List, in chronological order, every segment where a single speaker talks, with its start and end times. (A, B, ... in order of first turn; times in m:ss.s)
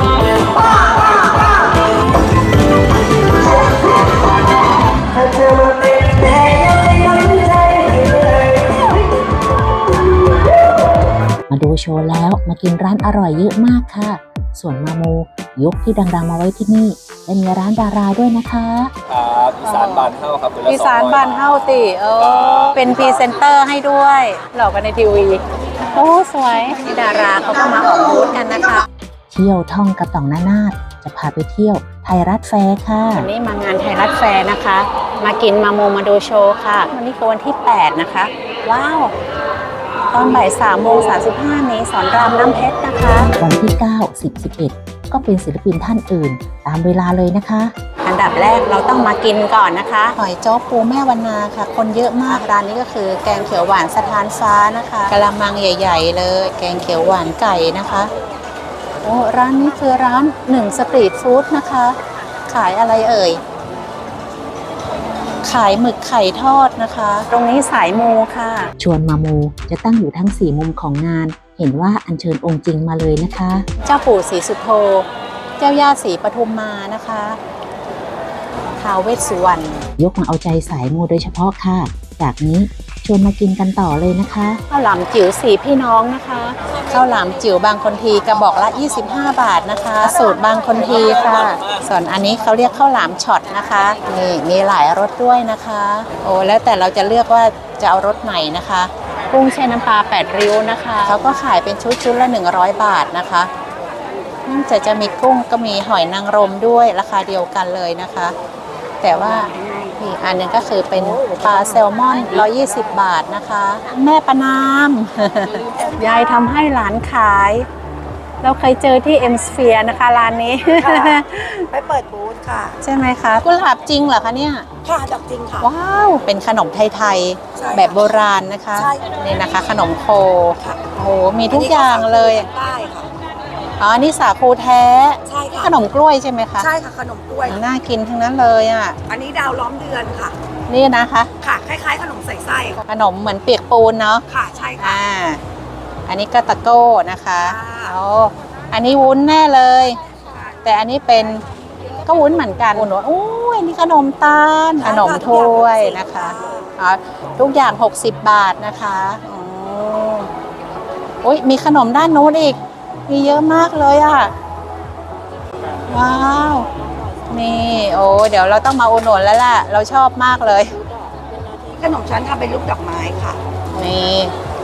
0:00.5-0:01.7 A
0:03.5-0:04.2 A
0:05.1-0:10.8 A
0:11.5-0:18.9 B
0:19.1-0:21.6 C
0:19.6-0:20.1 D
0:20.7-0:25.4 D
0:22.2-0:23.2 C
0:25.9-0:28.8 D
0:29.3-0:33.3 B
0:33.1-0:39.1 D
0:40.1-0:43.3 D
0:43.4-0:47.7 B
0:48.0-0:58.1 D
0:59.0-1:01.9 D
1:02.5-1:03.4 D
1:05.4-1:08.7 D
1:08.8-1:13.6 B
1:13.8-1:15.0 D
1:15.6-1:17.4 D
1:18.8-1:19.8 D
1:20.0-1:24.6 B
1:24.7-1:43.5 D
1:44.5-1:48.3 D
1:49.0-1:57.6 D
1:55.6-1:56.0 E
1:58.4-2:01.7 D
2:01.7-2:02.8 E
2:02.8-2:04.7 D
2:04.8-2:05.7 E
2:05.6-2:12.5 D
2:07.6-2:08.1 E
2:08.8-2:09.0 E
2:11.5-2:13.1 E
2:13.8-2:16.7 D
2:15.2-2:15.7 E
2:16.6-2:17.6 E
2:17.4-2:19.0 D
2:19.1-2:20.3 E
2:20.7-2:21.3 D
2:21.4-2:22.8 E
2:22.9-2:24.2 D
2:24.3-2:25.0 E
2:24.8-2:25.4 D
2:26.1-2:30.0 D
2:27.4-2:28.0 E
2:30.6-2:31.4 D
2:32.0-2:40.3 D
2:34.8-2:36.7 E
2:41.2-2:44.3 D
2:45.9-2:46.7 D
2:47.3-2:50.7 D
2:51.7-2:53.4 E
2:53.8-2:54.3 D